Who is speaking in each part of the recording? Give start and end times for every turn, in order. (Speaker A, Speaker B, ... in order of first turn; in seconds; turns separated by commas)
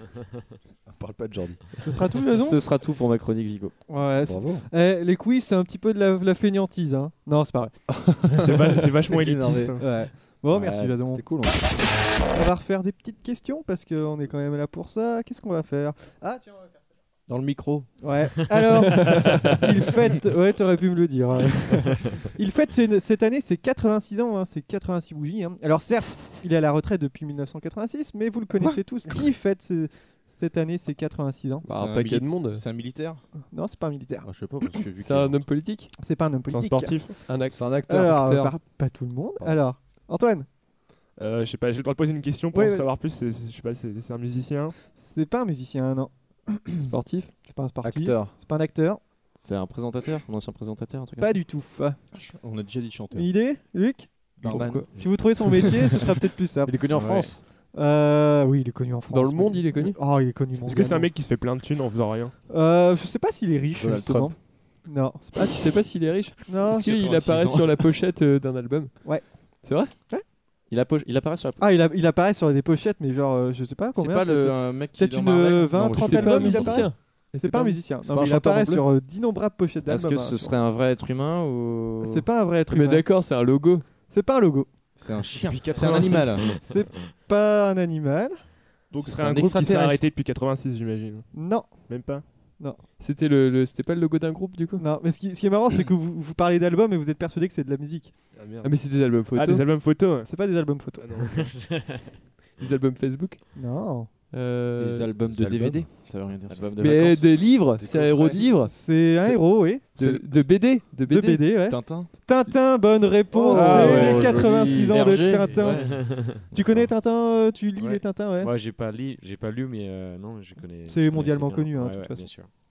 Speaker A: 0.8-1.6, Speaker B: 1.8-2.6, Speaker C: 2.3-3.7, Speaker B: 3.9-7.9, Speaker A: 4.2-4.7, Speaker A: 8.0-8.5, Speaker D: 8.3-9.8, Speaker A: 9.1-9.8, Speaker B: 9.8-11.2, Speaker A: 10.5-11.8, Speaker B: 12.3-16.8, Speaker E: 17.3-17.9, Speaker B: 18.0-31.7, Speaker F: 31.6-32.6, Speaker E: 31.7-33.2, Speaker B: 33.5-34.8, Speaker E: 34.2-35.5, Speaker F: 35.0-35.9, Speaker B: 36.0-37.1, Speaker D: 36.5-37.2, Speaker F: 37.3-38.5, Speaker A: 37.5-38.2, Speaker B: 37.9-40.5, Speaker D: 41.2-44.7, Speaker B: 42.5-42.9, Speaker B: 44.9-49.0, Speaker F: 46.9-47.3, Speaker A: 47.8-48.3, Speaker C: 49.3-51.4, Speaker B: 51.2-52.0, Speaker E: 52.1-53.3, Speaker B: 53.1-54.3, Speaker E: 54.4-54.8, Speaker A: 54.4-54.9, Speaker F: 54.4-54.9, Speaker B: 54.9-56.8, Speaker A: 56.6-57.4, Speaker E: 56.9-57.3, Speaker B: 57.7-61.1, Speaker F: 59.1-60.0, Speaker D: 60.6-62.3, Speaker B: 62.5-65.6, Speaker A: 63.8-64.3, Speaker F: 65.3-69.9, Speaker B: 66.5-67.0, Speaker E: 66.8-67.8, Speaker B: 69.0-70.2, Speaker C: 70.7-71.7, Speaker B: 71.6-80.5, Speaker E: 73.9-76.9, Speaker F: 75.8-77.8, Speaker A: 78.0-78.9, Speaker C: 79.9-82.2, Speaker B: 82.0-83.1, Speaker F: 82.7-83.9, Speaker B: 84.1-84.7, Speaker E: 85.0-86.6, Speaker D: 85.5-86.5, Speaker B: 86.5-88.5, Speaker G: 86.5-87.1, Speaker D: 88.9-91.3, Speaker E: 89.0-90.0, Speaker B: 91.3-92.8, Speaker D: 91.8-92.2, Speaker F: 93.0-94.8, Speaker B: 94.8-98.2, Speaker D: 98.3-100.3, Speaker F: 98.6-99.7, Speaker B: 100.3-101.2, Speaker D: 101.0-101.4, Speaker G: 101.4-102.1, Speaker F: 102.6-103.5, Speaker B: 103.5-104.1, Speaker F: 104.3-105.1, Speaker E: 104.8-107.2, Speaker A: 105.3-105.9, Speaker C: 106.5-107.4, Speaker F: 106.8-108.7, Speaker A: 107.8-108.4, Speaker B: 108.7-110.0, Speaker F: 109.8-111.5, Speaker B: 111.0-118.5, Speaker E: 111.7-112.1, Speaker E: 113.3-116.0, Speaker D: 113.6-114.3, Speaker F: 113.6-114.2, Speaker G: 115.6-116.5, Speaker G: 117.8-122.5, Speaker B: 120.9-122.3